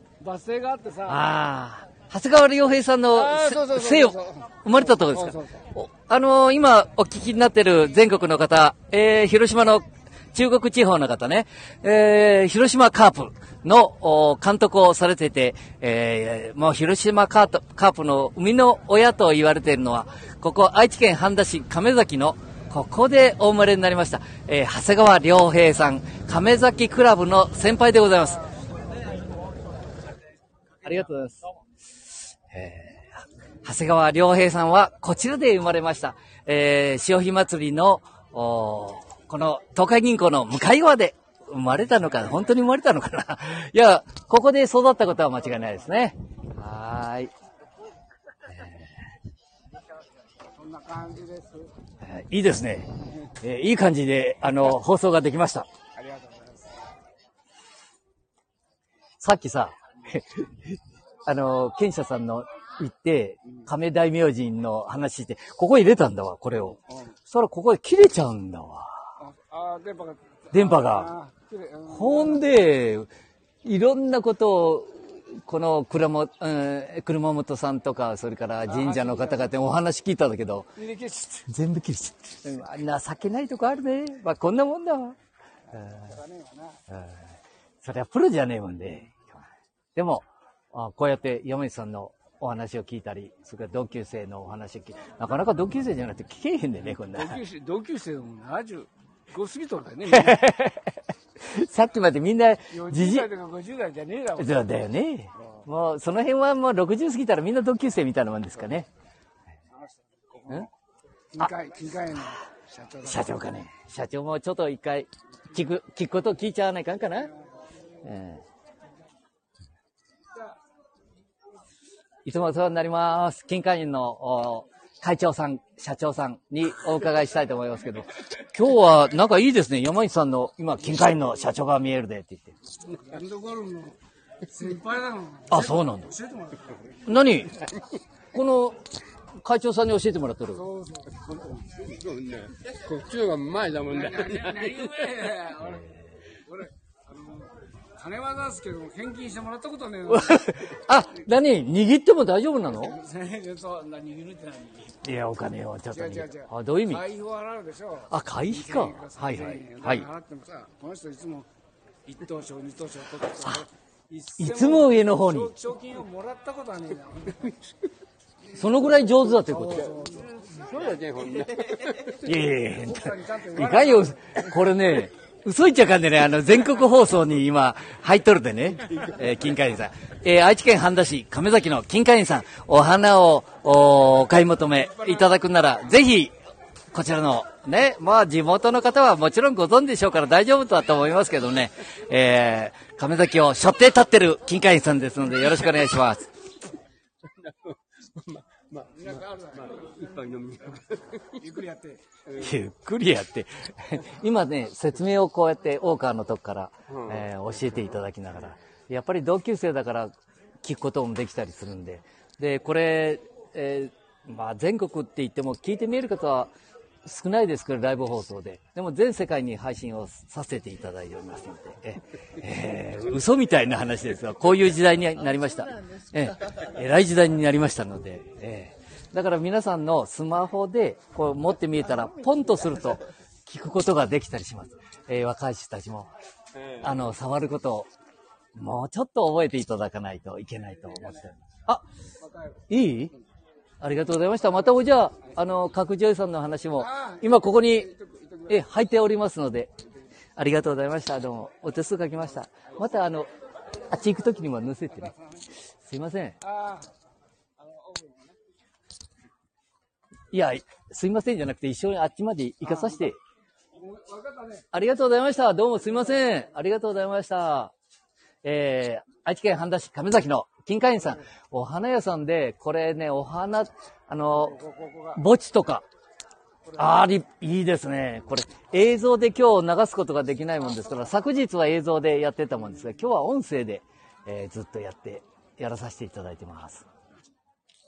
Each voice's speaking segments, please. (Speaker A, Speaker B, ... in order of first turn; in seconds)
Speaker A: 0.2-1.2, 3.1-5.7, 45.5-45.8, 50.5-51.7, 55.9-56.8, 66.7-67.2, 69.2-72.5, 78.7-79.6, 80.8-81.5, 85.7-86.8, 96.8-100.5, 102.7-104.7, 109.7-110.7, 111.3-113.5, 117.5-117.8, 132.9-137.0, 140.5-141.9, 143.8-150.6, 152.7-155.0, 155.9-161.5, 162.1-167.6, 169.4-170.7, 172.8-174.4, 198.8-202.0, 240.8-241.2, 242.2-242.7, 246.7-248.7, 254.9-255.5, 256.4-256.9, 257.6-258.4, 262.6-263.1, 263.7-264.7, 274.3-275.2, 276.6-277.2
Speaker B: 1.1-28.5, 30.8-31.4, 32.5-47.3, 48.5-48.9, 52.0-55.7, 59.2-69.1, 70.5-71.1, 71.9-73.1, 73.6-80.7, 81.5-85.2, 85.8-86.1, 86.9-87.2, 87.8-89.4, 89.9-97.4, 100.1-103.3, 104.4-108.9, 113.0-117.3, 118.0-118.4, 122.2-132.6, 135.5-136.1, 137.1-137.6, 138.3-138.8, 139.4-140.6, 145.6-145.9, 150.1-152.9, 155.0-157.0, 158.1-160.1, 164.4-165.5, 168.5-169.9, 172.0-186.3, 186.9-196.3, 202.3-210.1, 210.6-216.5, 217.0-236.1, 236.7-237.9, 238.6-241.8, 242.7-243.1, 243.8-247.9, 248.5-249.7, 250.3-253.3, 253.9-255.1, 255.8-256.4, 260.3-263.2, 264.7-267.7, 268.4-274.6, 275.1-275.9, 276.8-286.9
Speaker C: 141.9-144.3, 170.5-172.1, 197.5-198.9, 200.1-200.8